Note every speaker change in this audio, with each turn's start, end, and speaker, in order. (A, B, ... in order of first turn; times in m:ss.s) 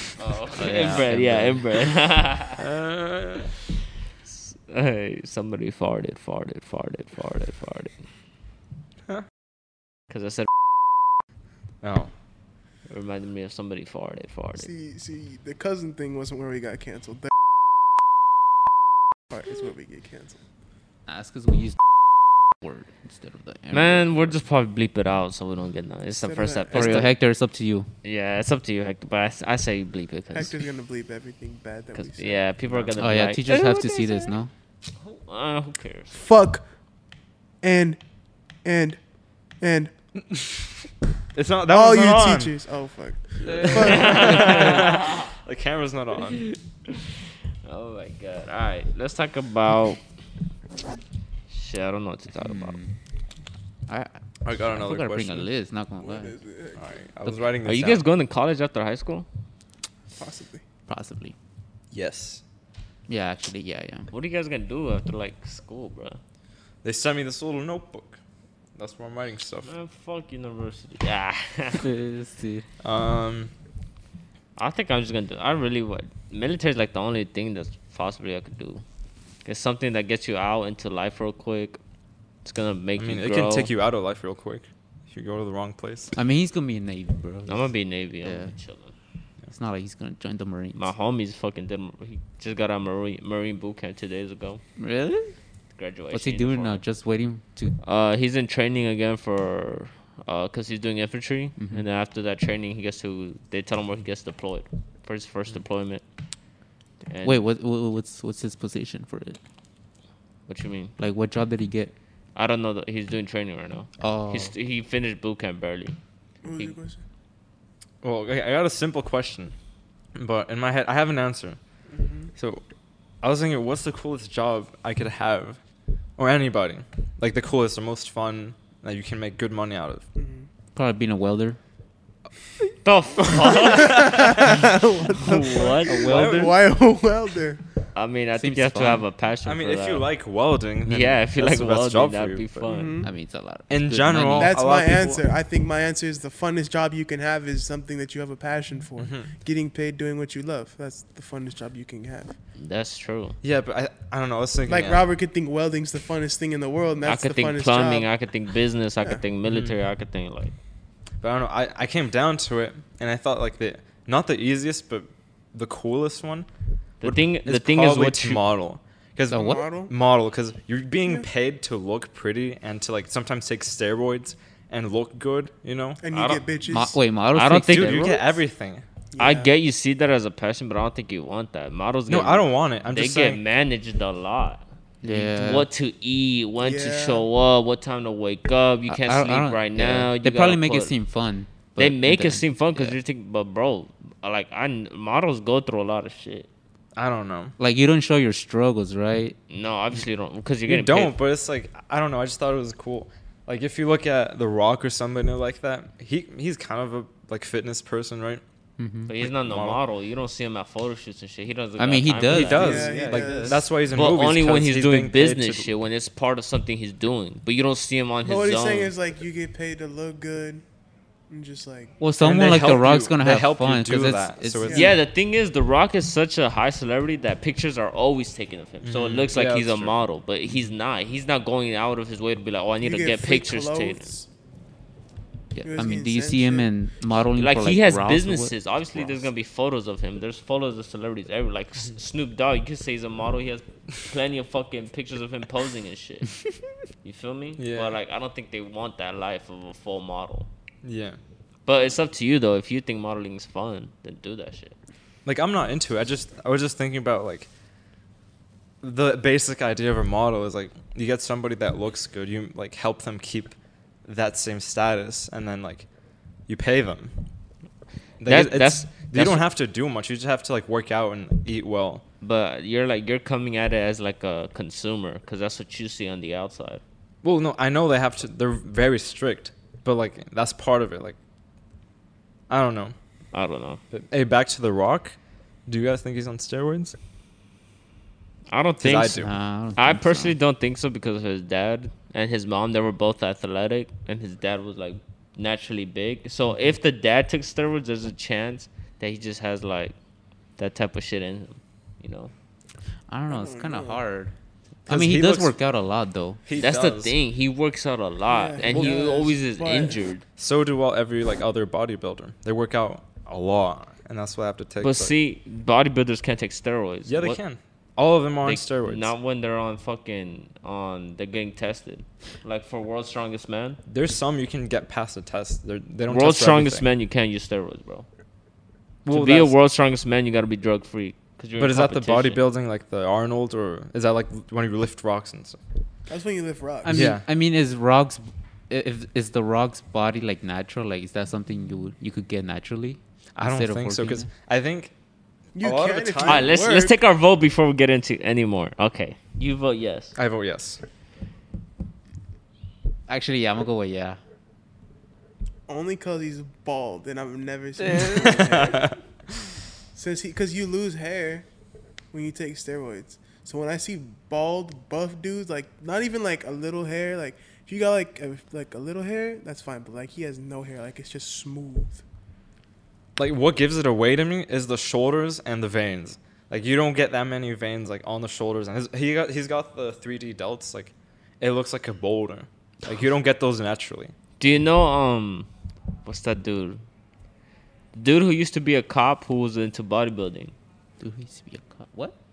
0:00.2-0:02.7 A
0:00.6-0:01.6 B
0:02.6-0:03.5 C
0:04.3-0:08.0 A
0:10.1-0:10.5 A
0:11.8-0:12.1 C
0:12.9-0:14.7 A
0:14.6-0:17.3 D
0:19.3-0:20.4 D
0:21.1-0:21.8 B
0:22.6-0:24.3 B
0:23.7-0:27.1 A
0:26.1-0:27.1 D
0:26.7-0:27.9 B
0:28.0-0:30.5 A
0:30.3-0:32.5 D
0:32.0-0:34.3 A
0:33.0-0:34.5 B
0:35.0-0:36.2 A
0:36.1-0:36.6 D
0:37.6-0:38.0 D
0:38.6-0:39.0 D
0:39.6-0:39.9 D
0:40.3-0:40.7 C
0:41.3-0:42.5 C
0:41.7-0:44.9 D
0:43.6-0:46.5 C
0:43.7-0:45.3 A
0:47.6-0:50.0 A
0:51.5-0:52.8 A
0:52.4-0:52.9 B
0:53.9-0:56.4 B
0:54.4-0:55.5 C
0:56.0-0:57.0 D
0:56.8-0:58.0 C
0:57.6-0:59.3 A
1:00.2-1:00.6 D
1:00.9-1:01.4 B
1:01.9-1:02.4 C
1:03.1-1:04.1 B
1:04.1-1:06.2 A
1:06.8-1:08.2 C
1:08.8-1:09.7 C
1:09.7-1:11.8 A
1:11.8-1:12.7 B
1:12.8-1:13.5 C
1:14.6-1:18.8 A
1:19.4-1:21.8 A
1:22.4-1:23.7 A
1:23.0-1:26.2 C
1:26.2-1:27.7 B
1:27.5-1:28.9 A
1:28.2-1:28.5 B
1:29.5-1:30.9 B
1:30.8-1:34.6 A
1:34.8-1:35.4 B
1:35.8-1:36.8 A
1:36.1-1:37.8 B
1:37.8-1:46.0 A
1:41.6-1:41.8 B
1:47.1-1:47.4 A
1:47.2-1:49.4 B
1:50.5-1:50.9 A
1:51.0-1:51.9 B
1:52.4-1:56.0 A
1:54.0-1:54.5 B
1:56.4-1:57.0 D
1:58.0-1:59.6 C
2:00.2-2:01.6 C
2:01.9-2:02.3 D
2:02.4-2:02.6 C
2:03.2-2:05.6 C
2:06.2-2:10.0 C
2:10.2-2:10.5 D
2:10.8-2:11.6 B
2:12.8-2:14.6 A
2:13.4-2:17.7 D
2:15.2-2:16.1 A
2:15.9-2:16.6 B
2:16.0-2:16.6 C
2:18.0-2:20.1 A
2:18.4-2:19.1 B
2:19.4-2:22.6 C
2:20.9-2:23.0 A
2:22.6-2:23.1 D
2:23.0-2:24.6 B
2:23.7-2:25.2 C
2:24.4-2:32.4 D
2:29.0-2:29.3 C
2:32.6-2:33.4 A
2:33.4-2:35.0 C
2:34.7-2:38.1 D
2:37.0-2:40.5 A
2:39.5-2:39.8 C
2:41.2-2:46.5 C
2:47.0-2:48.4 A
2:47.0-2:56.0 C
2:49.3-2:49.6 B
2:49.3-2:49.9 D
2:56.0-2:57.0 D
2:56.1-2:56.4 A
2:56.7-2:58.2 B
2:57.3-2:58.2 A
2:57.6-2:58.8 C
2:59.1-2:59.5 D
2:59.2-3:10.9 A
3:02.1-3:03.4 C
3:05.0-3:05.7 B
3:06.6-3:07.3 D
3:08.9-3:13.0 B
3:11.8-3:16.5 A
3:17.0-3:17.6 C
3:17.6-3:19.4 B
3:19.5-3:21.2 A
3:20.7-3:28.4 C
3:28.8-3:29.1 B
3:29.1-3:33.0 A
3:29.2-3:29.8 C
3:31.8-3:33.6 B
3:32.3-3:35.7 C
3:32.5-3:33.7 D
3:33.9-3:38.9 A
3:38.2-3:40.6 D
3:41.3-3:42.0 D
3:42.0-3:44.8 B
3:42.2-3:45.0 C
3:44.6-3:45.0 D
3:44.7-3:54.1 A
3:48.8-3:49.9 C
3:52.8-3:54.3 D
3:55.5-3:58.6 B
3:55.6-3:56.7 D
3:57.4-4:06.4 A
4:07.0-4:10.5 A
4:07.6-4:08.0 C
4:10.8-4:11.2 C
4:11.7-4:14.8 A
4:15.2-4:17.5 C
4:18.8-4:25.9 C
4:26.5-4:27.2 C
4:28.2-4:32.0 C
4:28.2-4:29.4 A
4:32.2-4:36.8 A
4:37.2-4:41.2 C
4:42.5-4:43.0 C
4:43.3-4:43.8 A
4:43.9-4:47.0 C
4:48.5-5:00.0 A
4:48.8-4:49.3 C
4:49.2-4:50.4 B
5:00.6-5:02.3 A
5:03.1-5:04.3 B
5:03.3-5:04.0 D
5:04.9-5:05.6 C
5:04.9-5:06.4 B
5:06.5-5:07.2 C
5:06.6-5:10.2 A
5:08.3-5:10.0 D
5:08.7-5:09.0 C
5:10.4-5:15.1 C
5:14.8-5:17.4 A
5:17.1-5:19.1 C
5:18.4-5:23.8 A
5:23.9-5:26.9 C
5:26.1-5:28.1 A
5:29.1-5:29.5 C
5:29.1-5:32.4 A
5:31.6-5:35.6 C
5:36.1-5:37.1 D
5:36.8-5:44.3 B
5:36.9-5:37.2 C
5:43.4-5:44.9 C
5:45.6-5:47.0 D
5:45.6-5:46.6 C
5:46.2-5:50.1 A
5:50.2-5:50.8 C
5:53.1-5:54.2 B
5:55.7-5:59.0 D
5:57.8-5:58.4 B
5:58.1-5:59.0 C
5:59.9-6:01.5 D
6:02.1-6:12.0 D
6:13.2-6:24.1 C
6:24.4-6:25.5 A
6:26.0-6:26.8 A
6:27.9-6:30.5 A
6:31.0-6:32.2 B